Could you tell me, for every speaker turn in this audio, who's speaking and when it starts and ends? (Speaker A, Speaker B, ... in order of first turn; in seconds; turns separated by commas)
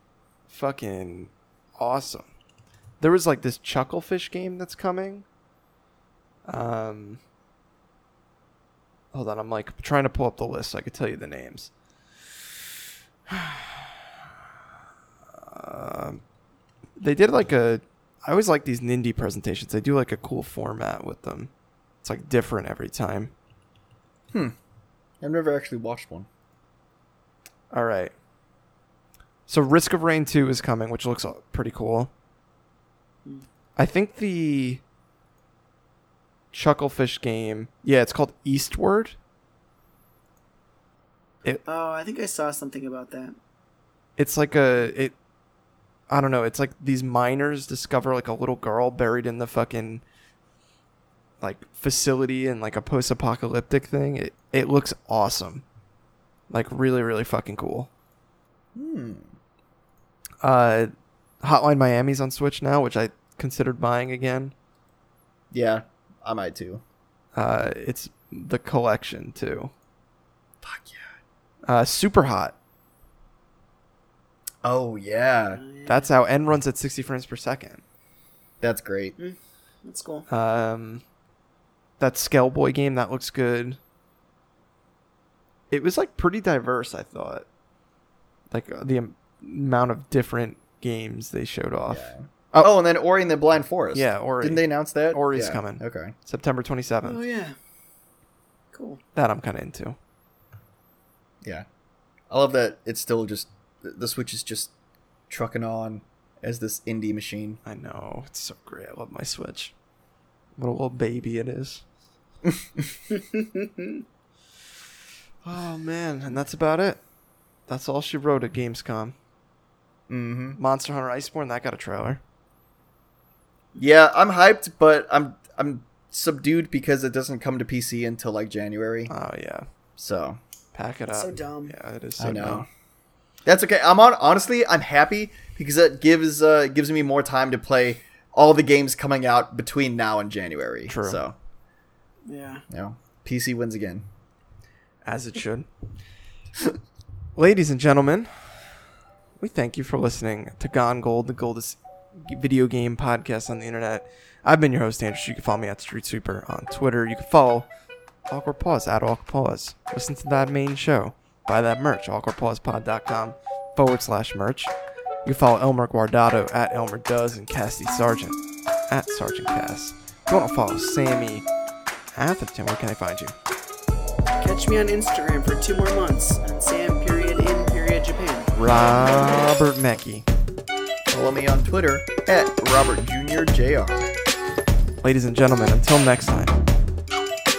Speaker A: 0.5-2.2, Speaker A: 3.0-5.2, Speaker A: 6.5-7.2, Speaker A: 9.1-11.7, Speaker A: 13.3-14.0, Speaker A: 15.3-16.2, Speaker A: 17.0-21.5, Speaker A: 22.0-23.3, Speaker B: 25.2-26.3, Speaker A: 27.7-28.1, Speaker A: 29.5-32.1, Speaker A: 33.8-34.8, Speaker A: 36.5-39.1, Speaker C: 41.6-43.4, Speaker A: 44.2-45.1, Speaker A: 46.1-50.0, Speaker A: 51.4-55.6, Speaker A: 56.5-57.9, Speaker B: 58.7-59.3, Speaker A: 60.4-60.9, Speaker A: 61.4-64.5, Speaker B: 65.5-66.8, Speaker A: 67.3-69.7, Speaker B: 70.6-71.1, Speaker A: 71.7-72.5, Speaker B: 74.6-75.6, Speaker C: 75.5-76.1, Speaker A: 75.8-77.8, Speaker B: 78.6-79.1, Speaker C: 79.2-80.3, Speaker A: 80.3-81.0, Speaker A: 82.0-83.8, Speaker A: 85.7-87.4, Speaker A: 88.5-92.7, Speaker B: 91.9-96.1, Speaker A: 93.9-97.2, Speaker C: 97.0-97.5, Speaker C: 98.7-99.0, Speaker A: 99.1-100.0, Speaker B: 102.3-104.7, Speaker B: 105.3-107.6, Speaker A: 107.6-109.7, Speaker A: 110.6-111.8, Speaker B: 112.4-112.8, Speaker C: 113.1-114.0, Speaker A: 115.4-117.0, Speaker A: 117.7-119.1, Speaker B: 120.1-120.6, Speaker A: 120.6-122.2, Speaker B: 123.8-129.1, Speaker A: 129.1-129.7, Speaker B: 130.0-130.4, Speaker A: 130.7-132.6, Speaker C: 131.1-131.7, Speaker B: 132.2-132.7, Speaker B: 133.4-141.3, Speaker A: 140.9-141.2, Speaker C: 142.3-142.6, Speaker B: 142.7-144.0, Speaker A: 145.0-145.7, Speaker A: 147.3-148.6, Speaker A: 149.4-157.7, Speaker A: 158.3-164.7, Speaker A: 165.2-168.4, Speaker A: 168.9-171.4, Speaker A: 172.1-173.3, Speaker C: 174.4-178.5, Speaker A: 178.5-180.2, Speaker B: 181.1-184.1, Speaker A: 185.0-186.6